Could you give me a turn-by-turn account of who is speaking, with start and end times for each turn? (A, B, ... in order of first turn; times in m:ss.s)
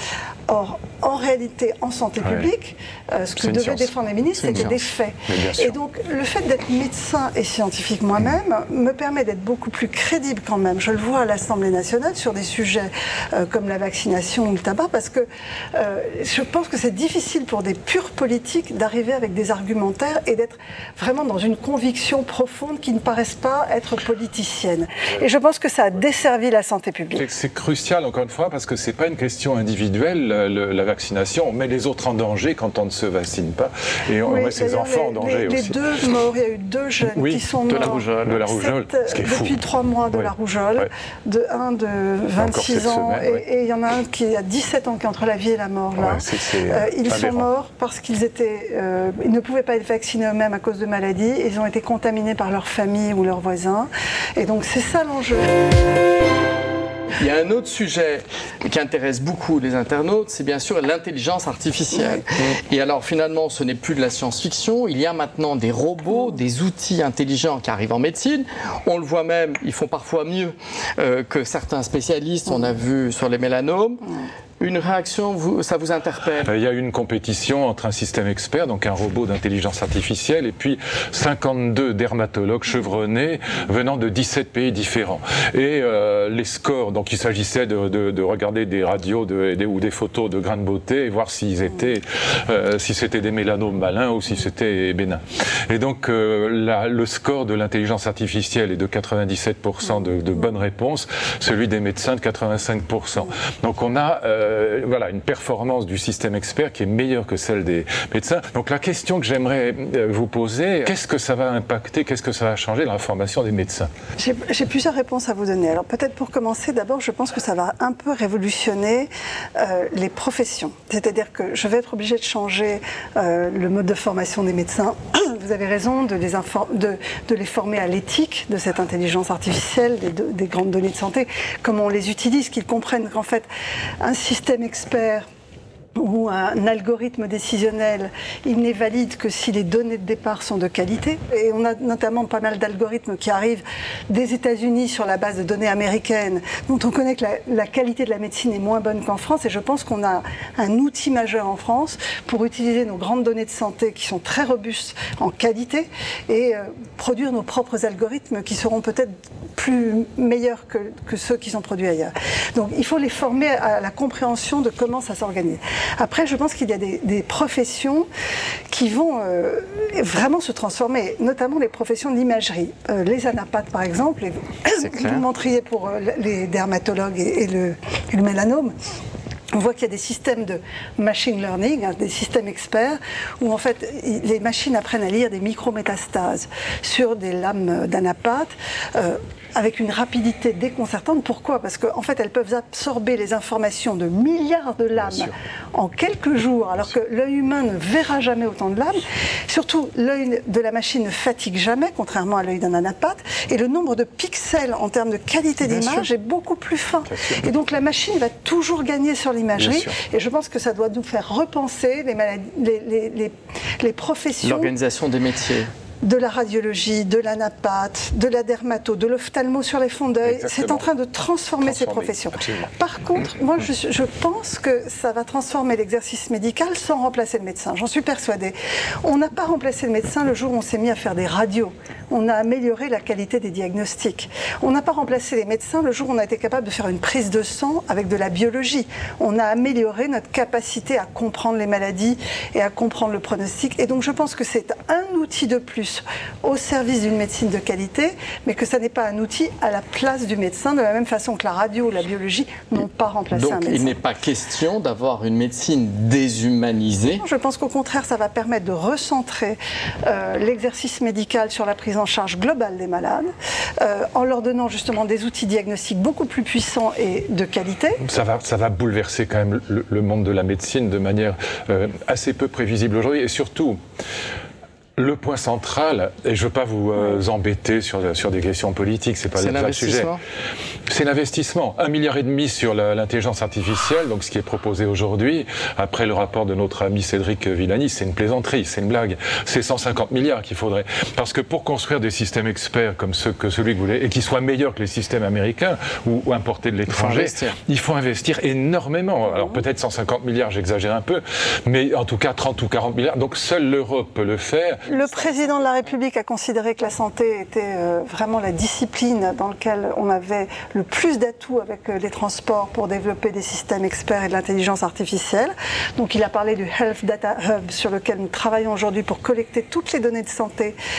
0:00.5-0:27.3 A
0:02.2-0:02.5 B
0:03.4-0:04.9 C
0:05.3-0:05.8 B
0:27.2-0:35.8 B
0:34.2-0:55.5 A
0:37.0-0:39.6 B
0:37.7-0:38.5 C
0:40.1-0:40.9 B
0:42.4-0:43.4 B
0:46.0-0:47.5 B
0:57.2-1:14.1 C
1:14.6-1:16.5 C
1:16.4-1:53.9 B
1:54.2-2:13.5 A
2:14.0-2:15.2 A
2:16.0-2:48.1 A
2:48.7-2:58.7 A
2:54.8-2:55.2 C
2:59.5-3:34.7 A
3:15.0-3:15.3 B
3:25.6-3:26.1 C
3:27.1-3:27.5 B
3:29.6-3:29.9 B
3:34.4-3:35.7 C
3:36.0-4:14.0 A
3:40.2-3:40.9 B
3:41.6-3:42.7 B
4:13.3-4:17.2 C
4:17.2-4:23.3 A
4:23.8-4:28.0 A
4:28.0-4:33.8 B
4:35.0-4:40.1 B
4:37.0-4:37.2 A
4:39.4-4:40.2 C
4:40.9-5:04.8 B
4:56.9-4:57.6 C
4:59.2-4:59.6 A
5:04.9-5:20.8 A
5:04.9-5:05.7 C